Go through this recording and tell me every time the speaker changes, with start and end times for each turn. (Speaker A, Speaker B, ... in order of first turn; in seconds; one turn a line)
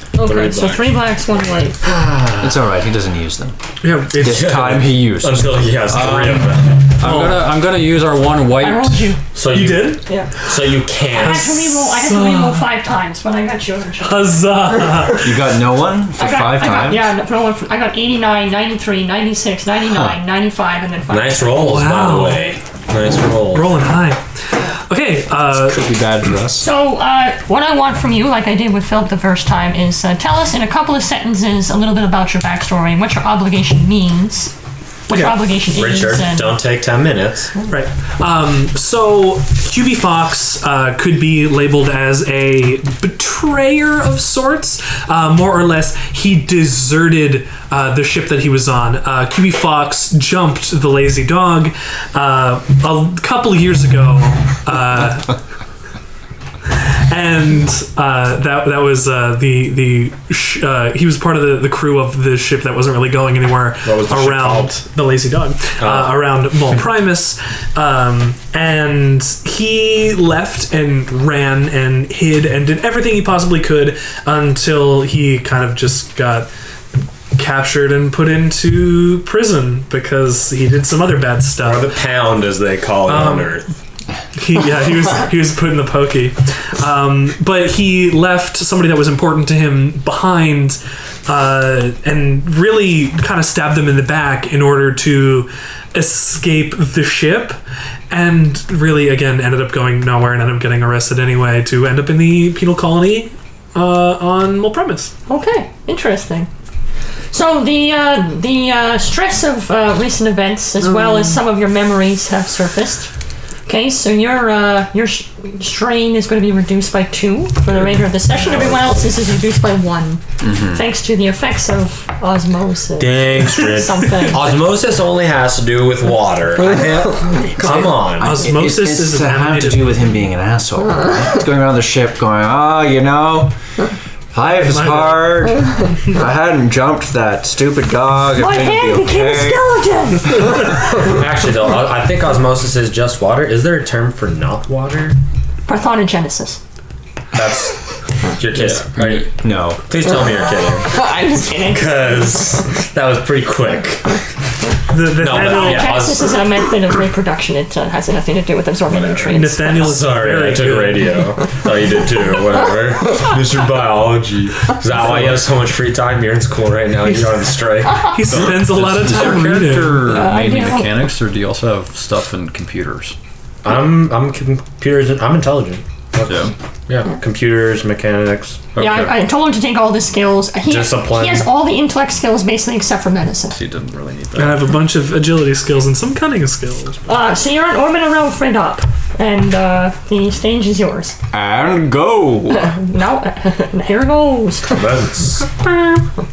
Speaker A: 0.1-1.8
Speaker B: 0.2-1.0
Speaker C: 2.0-3.6
Speaker D: 3.8-4.5
Speaker C: 4.1-5.6
Speaker B: 4.2-6.9
Speaker E: 5.9-9.1
Speaker D: 7.0-7.5
Speaker A: 8.6-9.2
Speaker B: 9.3-11.5
Speaker D: 9.5-12.7
Speaker A: 10.1-10.3
Speaker A: 11.1-14.4
Speaker D: 14.0-15.5
Speaker C: 15.1-17.1
Speaker A: 16.2-21.5
Speaker C: 19.9-20.2
Speaker B: 21.1-23.8
Speaker D: 21.5-22.6
Speaker D: 23.5-25.9
Speaker C: 25.5-26.7
Speaker A: 26.6-34.5
Speaker A: 35.1-36.6
Speaker D: 35.1-35.4
Speaker B: 35.6-37.6
Speaker D: 37.7-55.4
Speaker D: 56.9-76.5
Speaker B: 63.8-64.8
Speaker B: 65.8-66.6
Speaker D: 77.3-81.9
Speaker B: 81.6-83.7
Speaker D: 83.0-83.5
Speaker D: 84.3-97.6
Speaker D: 98.1-105.1
Speaker A: 105.3-106.5
Speaker A: 107.3-113.1
Speaker A: 113.7-124.6
Speaker B: 117.7-119.1
Speaker C: 120.4-120.8
Speaker B: 123.0-128.4
Speaker D: 127.5-130.0
Speaker C: 128.2-133.6
Speaker C: 134.3-139.8
Speaker D: 134.4-135.4
Speaker A: 138.3-140.5
Speaker B: 140.9-145.2
Speaker A: 145.7-146.6
Speaker B: 147.3-149.3
Speaker E: 148.5-149.2
Speaker C: 149.4-149.8
Speaker B: 149.8-151.1
Speaker A: 150.8-152.0
Speaker B: 151.7-154.2
Speaker D: 154.9-156.1
Speaker B: 155.1-156.4
Speaker A: 155.3-159.9
Speaker B: 158.9-168.5
Speaker D: 159.2-161.1
Speaker D: 168.0-170.1
Speaker E: 168.3-173.1
Speaker A: 170.0-171.1
Speaker B: 173.6-178.7
Speaker E: 176.2-176.5
Speaker E: 178.7-179.1
Speaker A: 178.8-183.6
Speaker B: 180.7-181.5
Speaker E: 183.5-184.7
Speaker D: 184.3-187.1
Speaker A: 187.1-191.2
Speaker C: 191.3-192.7
Speaker A: 192.5-194.8
Speaker B: 194.7-195.5